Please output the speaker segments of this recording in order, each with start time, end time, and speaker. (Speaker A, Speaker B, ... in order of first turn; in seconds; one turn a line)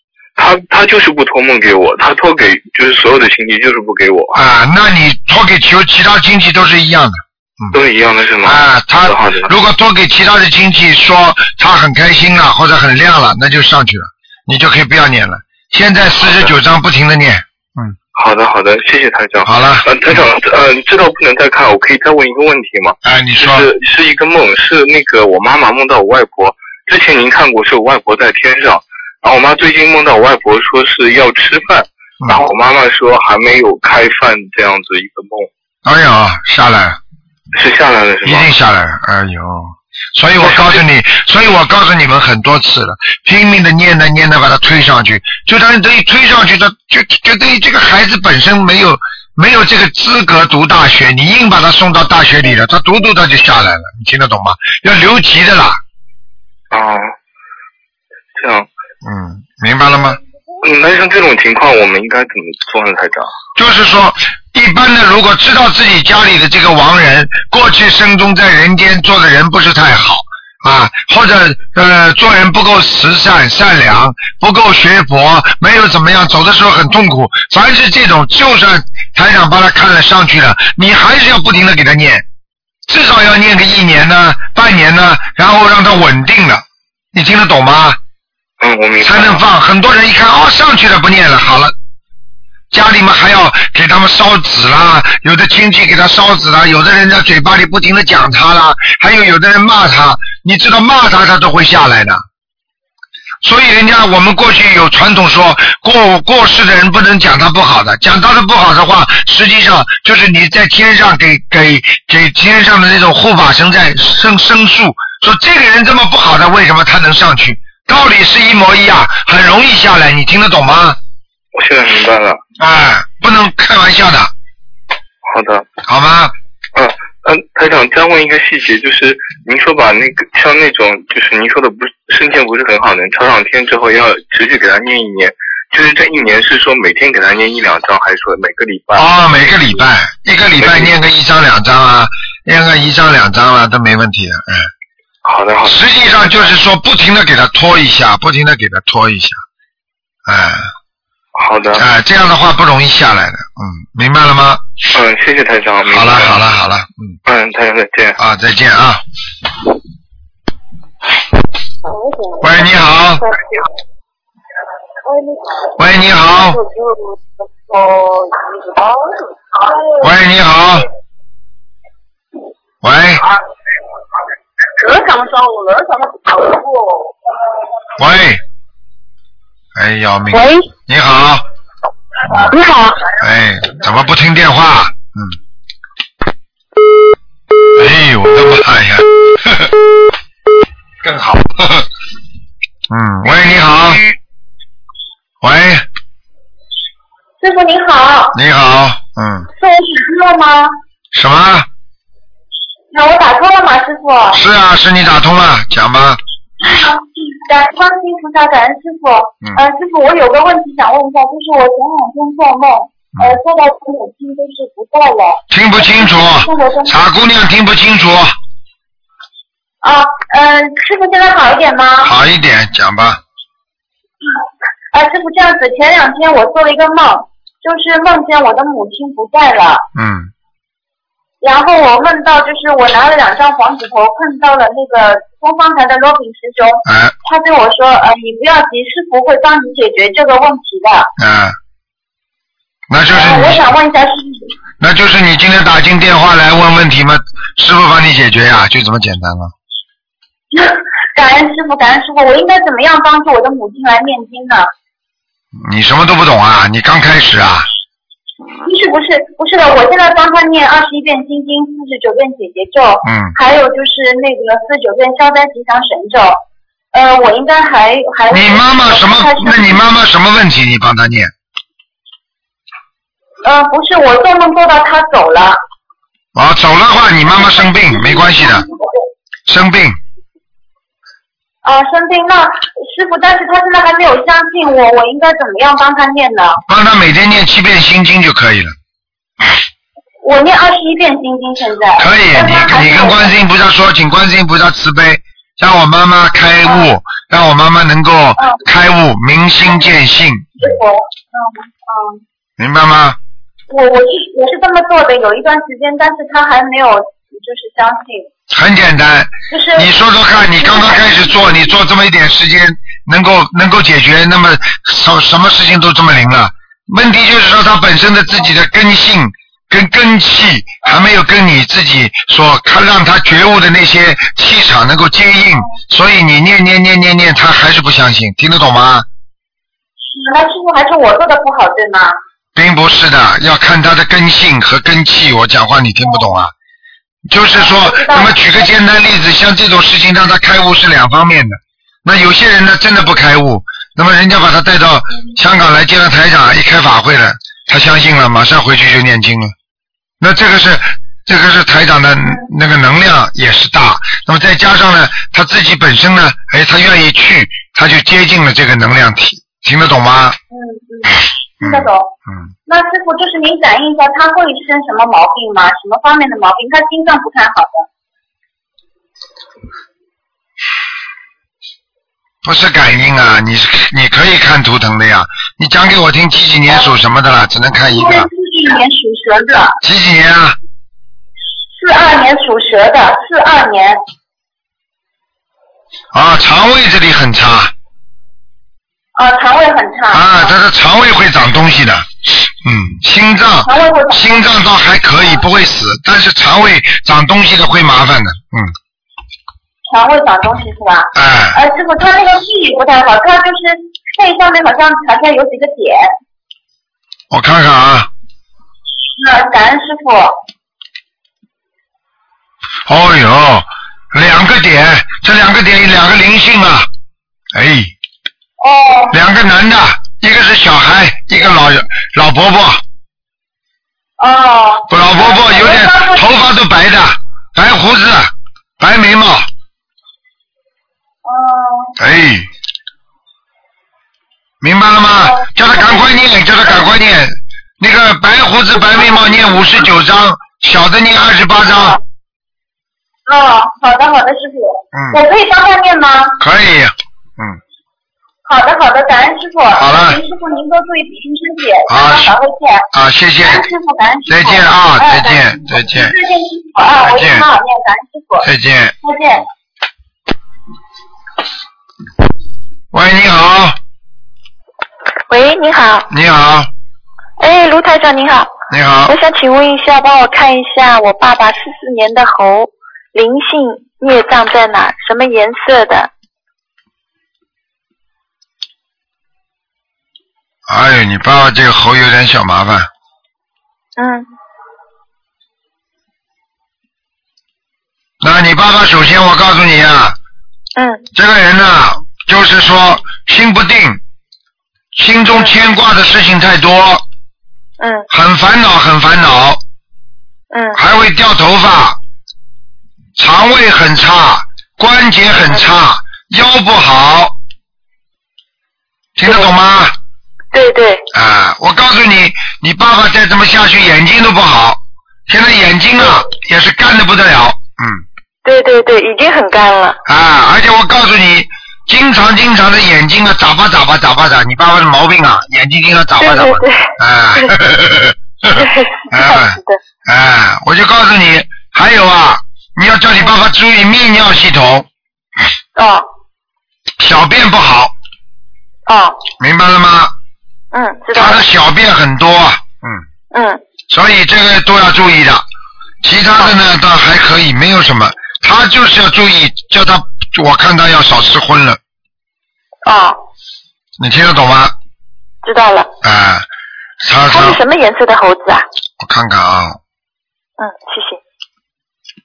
Speaker A: 0.4-4.3
Speaker B: 4.3-7.8
Speaker A: 7.7-9.5
Speaker B: 8.4-18.0
Speaker A: 18.1-35.5
Speaker B: 19.4-19.9
Speaker B: 23.0-23.7
Speaker B: 35.9-37.0
Speaker A: 37.5-38.5
Speaker B: 38.2-55.8
Speaker A: 40.4-40.8
Speaker A: 56.7-57.1
Speaker A: 58.4-58.7
Speaker B: 59.0-60.2
Speaker A: 60.6-63.3
Speaker B: 63.6-82.2
Speaker B: 82.9-88.0
Speaker A: 88.6-89.4
Speaker B: 89.0-91.7
Speaker B: 92.7-102.2
Speaker B: 103.4-121.0
Speaker A: 121.5-122.4
Speaker B: 122.6-124.3
Speaker A: 125.2-125.7
Speaker B: 125.9-126.3
Speaker A: 126.8-139.1
Speaker B: 138.9-144.7
Speaker A: 140.6-140.9
Speaker A: 145.2-145.8
Speaker B: 145.7-149.4
Speaker B: 150.3-150.7
Speaker A: 151.4-151.8
Speaker B: 151.8-154.6
Speaker A: 154.9-156.4
Speaker B: 155.9-157.2
Speaker A: 157.3-158.2
Speaker B: 158.2-159.0
Speaker B: 162.4-163.2
Speaker B: 165.8-166.6
Speaker B: 170.0-170.9
Speaker B: 172.8-173.2
Speaker C: 174.8-176.3
Speaker B: 178.0-178.4
Speaker B: 179.8-181.4
Speaker C: 180.3-180.7
Speaker C: 182.4-183.0
Speaker B: 183.2-185.4
Speaker B: 187.8-189.7
Speaker B: 191.0-191.9
Speaker B: 192.9-194.0
Speaker B: 195.4-195.8
Speaker D: 197.4-198.4
Speaker B: 198.3-199.5
Speaker D: 199.6-200.7
Speaker B: 201.1-201.7
Speaker D: 202.9-204.4
Speaker B: 204.3-206.2
Speaker D: 206.6-217.0
Speaker B: 215.5-218.3
Speaker D: 219.8-222.1
Speaker B: 222.0-223.2
Speaker D: 224.9-229.8
Speaker B: 229.9-230.3
Speaker D: 231.4-241.1
Speaker B: 236.9-237.2
Speaker B: 241.2-241.6
Speaker B: 242.9-243.8
Speaker D: 243.1-244.5
Speaker B: 244.8-249.5
Speaker D: 250.5-254.7
Speaker B: 255.6-257.7
Speaker D: 258.6-266.4
Speaker B: 263.0-263.4
Speaker D: 266.9-269.8
Speaker B: 268.3-271.3
Speaker D: 273.4-275.6
Speaker B: 276.4-278.6
Speaker D: 277.6-278.8
Speaker B: 279.5-280.0
Speaker D: 281.6-286.6
Speaker B: 286.7-288.8
Speaker D: 290.2-293.4
Speaker B: 292.0-300.8
Speaker D: 296.6-296.9
Speaker D: 300.6-302.2
Speaker B: 302.6-303.2
Speaker D: 303.7-308.3
Speaker B: 308.5-329.1
Speaker D: 309.5-311.7
Speaker D: 330.1-332.1
Speaker B: 332.6-336.5
Speaker B: 337.3-349.5
Speaker D: 337.6-338.4
Speaker B: 350.2-360.4
Speaker D: 360.5-362.1
Speaker B: 361.6-362.5
Speaker D: 362.7-367.9
Speaker B: 372.4-378.3
Speaker D: 377.9-379.8
Speaker B: 379.8-380.6
Speaker D: 381.8-384.0
Speaker B: 386.1-387.7
Speaker D: 389.2-390.5
Speaker B: 390.1-398.8
Speaker D: 393.6-394.5
Speaker D: 399.9-406.1
Speaker B: 401.1-401.6
Speaker B: 407.3-408.1
Speaker D: 409.1-410.3
Speaker B: 412.9-416.9
Speaker B: 417.5-417.9
Speaker D: 418.6-419.1
Speaker B: 419.1-422.8
Speaker D: 424.2-426.3
Speaker B: 424.9-429.5
Speaker D: 431.2-431.9
Speaker B: 432.0-432.5
Speaker B: 434.6-442.0
Speaker D: 435.4-436.2
Speaker D: 438.9-439.7
Speaker D: 443.3-446.4
Speaker B: 444.9-445.2
Speaker B: 446.4-447.6
Speaker D: 448.5-452.9
Speaker B: 449.7-450.2
Speaker B: 451.9-452.4
Speaker B: 452.9-453.7
Speaker D: 453.4-458.5
Speaker B: 454.3-456.1
Speaker B: 457.0-457.5
Speaker B: 458.4-458.9
Speaker D: 459.0-459.4
Speaker B: 462.9-463.8
Speaker E: 465.3-466.1
Speaker B: 466.1-466.7
Speaker E: 467.4-468.5
Speaker B: 468.7-469.2
Speaker E: 469.1-476.1
Speaker B: 480.7-482.9
Speaker E: 484.0-484.3
Speaker B: 488.2-490.2
Speaker B: 491.1-494.0
Speaker B: 494.9-497.0
Speaker B: 498.1-499.6
Speaker B: 500.8-502.0
Speaker B: 503.2-507.4
Speaker B: 509.2-509.9
Speaker B: 511.1-518.0
Speaker E: 518.7-520.0
Speaker B: 520.1-534.9
Speaker E: 526.2-526.6
Speaker B: 537.0-538.0
Speaker B: 539.4-540.1
Speaker E: 540.8-541.4
Speaker B: 541.1-543.0
Speaker B: 543.9-545.5
Speaker B: 546.0-551.8
Speaker B: 554.0-554.7
Speaker E: 555.5-555.9
Speaker B: 556.0-556.5
Speaker B: 557.0-557.6
Speaker E: 557.3-558.6
Speaker B: 559.0-559.8
Speaker E: 560.6-561.2